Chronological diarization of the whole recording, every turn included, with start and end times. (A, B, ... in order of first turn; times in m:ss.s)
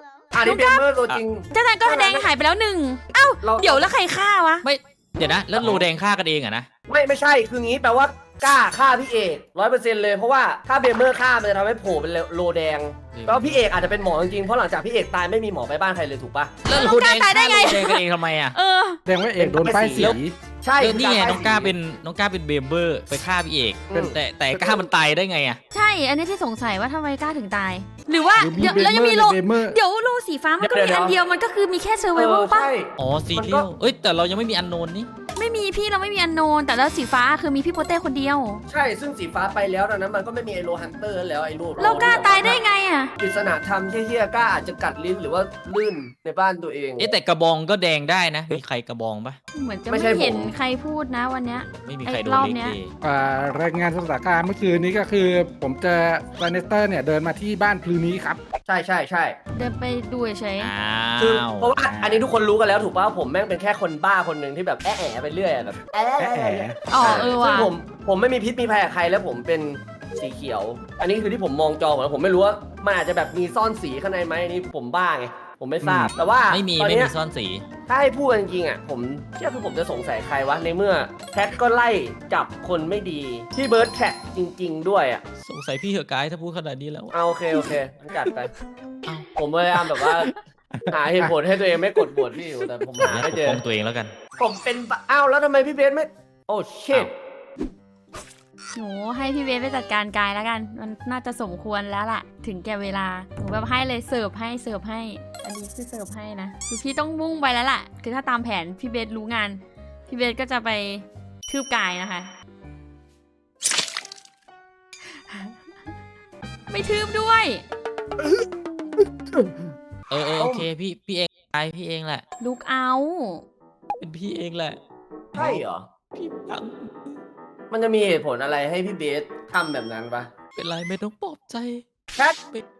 0:00.3-0:02.3 A
0:00.4-0:00.8 B
0:01.5-0:04.6 B
0:03.4-0:03.9 A
0:04.6-0:06.7 C
0:05.6-0:05.8 A
0:06.9-0:16.6 A
0:13.1-0:13.6 C
0:16.6-0:18.6 C
0:16.7-0:19.0 B
0:19.0-0:20.4 D
0:19.4-0:21.8 A
0:20.8-0:25.6 C
0:23.9-0:24.2 A
0:25.7-0:32.7 B
0:28.4-0:29.8 D
0:30.6-0:31.2 A
0:32.1-0:33.7 A
0:33.0-0:35.1 C
0:35.4-0:38.6 B
0:38.7-0:42.6 A
0:41.8-0:43.1 B
0:43.2-0:47.1 A
0:47.0-0:49.4 C
0:49.5-0:52.8 B
0:49.9-0:50.5 A
0:51.8-0:52.9 C
0:53.0-0:58.4 D
0:58.6-0:59.4 A
0:59.5-1:00.7 B
1:00.6-1:01.7 C
1:01.2-1:17.1 A
1:01.8-1:02.2 D
1:06.2-1:06.8 D
1:06.9-1:07.7 B
1:15.8-1:16.1 D
1:16.5-1:17.6 C
1:17.8-1:25.2 A
1:25.4-1:27.6 C
1:27.1-1:28.5 A
1:29.0-1:30.9 C
1:29.3-1:30.3 A
1:30.9-1:33.6 A
1:32.9-1:34.1 C
1:34.4-1:37.1 A
1:38.7-1:52.3 B
1:56.7-1:57.6 B
2:00.1-2:02.2 C
2:00.3-2:00.7 A
2:02.4-2:03.4 B
2:04.0-2:04.8 C
2:05.3-2:05.9 A
2:05.4-2:07.2 C
2:07.7-2:10.3 A
2:10.5-2:11.8 C
2:12.1-2:12.4 A